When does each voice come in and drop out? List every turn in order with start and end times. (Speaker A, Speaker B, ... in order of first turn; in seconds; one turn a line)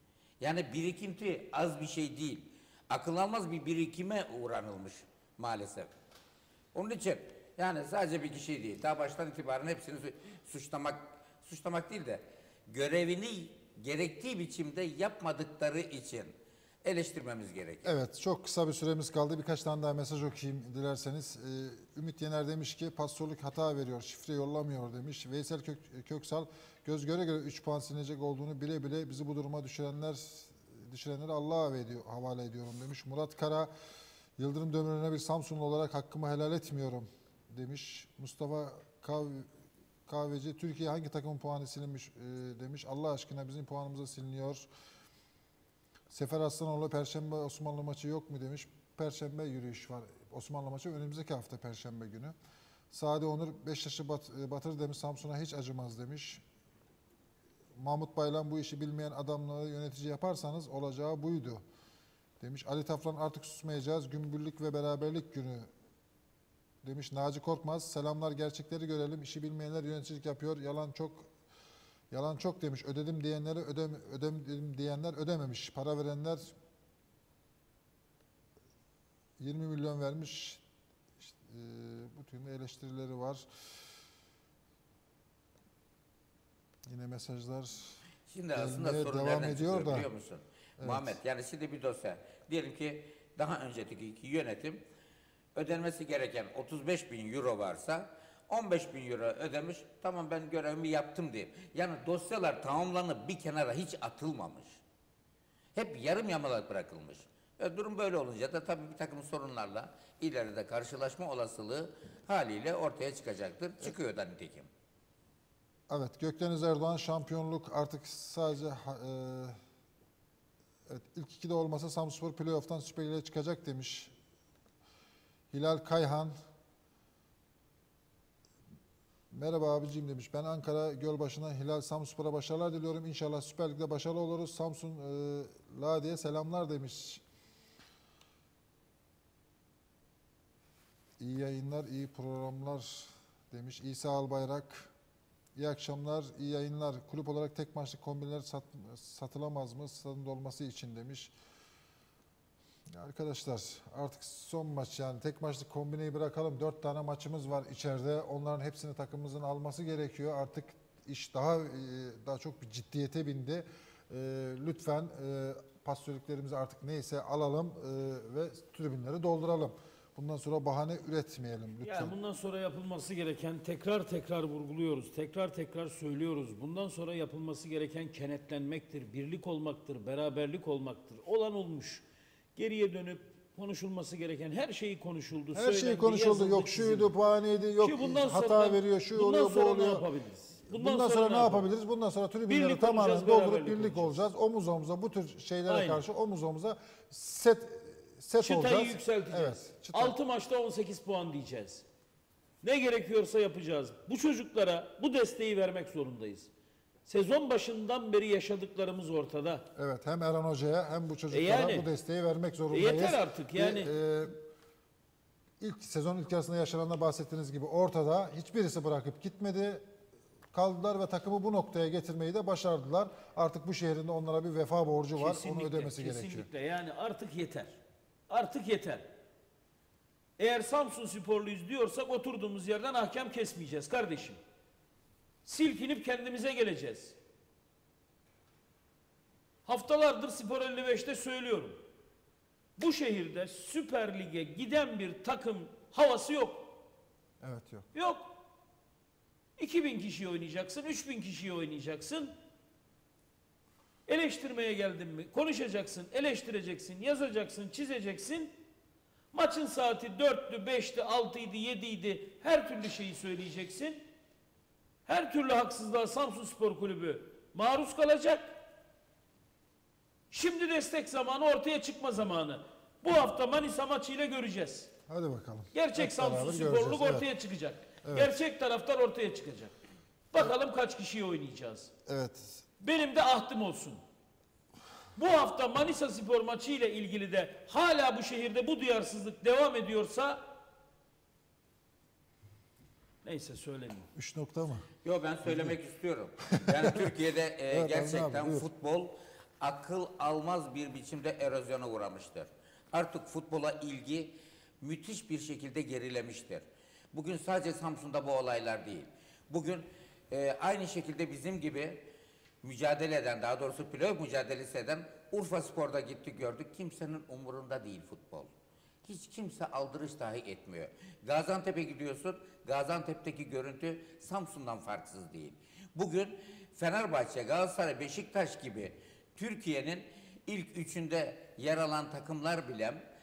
Speaker A: 0.4-5.9
Speaker A: 6.7-17.9
Speaker B: 17.8-33.7
Speaker B: 34.4-39.5
Speaker B: 40.1-44.7
Speaker B: 46.1-52.4
Speaker B: 52.9-56.4
Speaker B: 57.8-61.6
Speaker B: 62.4-65.7
Speaker B: 66.8-71.3
Speaker B: 72.1-76.5
Speaker B: 79.4-80.6
Speaker B: 81.2-83.5
Speaker B: 86.9-88.0
Speaker A: 88.3-94.8
Speaker B: 88.5-90.1
Speaker B: 90.8-91.2
Speaker A: 95.5-104.8
Speaker A: 105.8-114.7
Speaker B: 115.9-119.6
Speaker B: 120.9-124.1
Speaker B: 125.5-126.4
Speaker B: 129.3-137.2
Speaker B: 141.2-144.9
Speaker B: 145.6-151.3
Speaker B: 152.9-172.2
Speaker C: 171.8-182.0
Speaker C: 182.6-187.1
Speaker B: 185.5-190.0
Speaker C: 187.8-191.7
Speaker B: 190.7-200.2
Speaker C: 192.5-194.2
Speaker C: 195.7-196.0
Speaker C: 198.4-201.8
Speaker C: 202.6-206.5
Speaker C: 207.1-209.7
Speaker B: 209.8-214.4
Speaker C: 211.3-211.9
Speaker C: 212.7-213.9
Speaker B: 215.6-219.9
Speaker B: 220.5-226.5
Speaker C: 225.2-229.1
Speaker C: 230.4-234.4
Speaker C: 235.4-237.2
Speaker C: 239.7-241.8
Speaker C: 242.8-246.8
Speaker B: 247.4-247.9
Speaker C: 247.9-248.4
Speaker C: 249.6-252.3
Speaker C: 254.1-258.5
Speaker C: 259.3-264.0
Speaker C: 265.1-268.6
Speaker C: 270.3-274.9
Speaker B: 275.1-277.3
Speaker C: 275.7-279.8
Speaker B: 278.0-278.3
Speaker C: 280.3-281.9
Speaker B: 282.1-282.6
Speaker C: 282.8-284.0
Speaker C: 285.2-290.4
Speaker C: 293.2-294.1
Speaker B: 294.1-294.9
Speaker A: 295.0-312.1
Speaker B: 295.4-295.8
Speaker B: 296.7-297.1
Speaker B: 297.7-298.7
Speaker A: 312.6-318.5
Speaker A: 319.1-333.0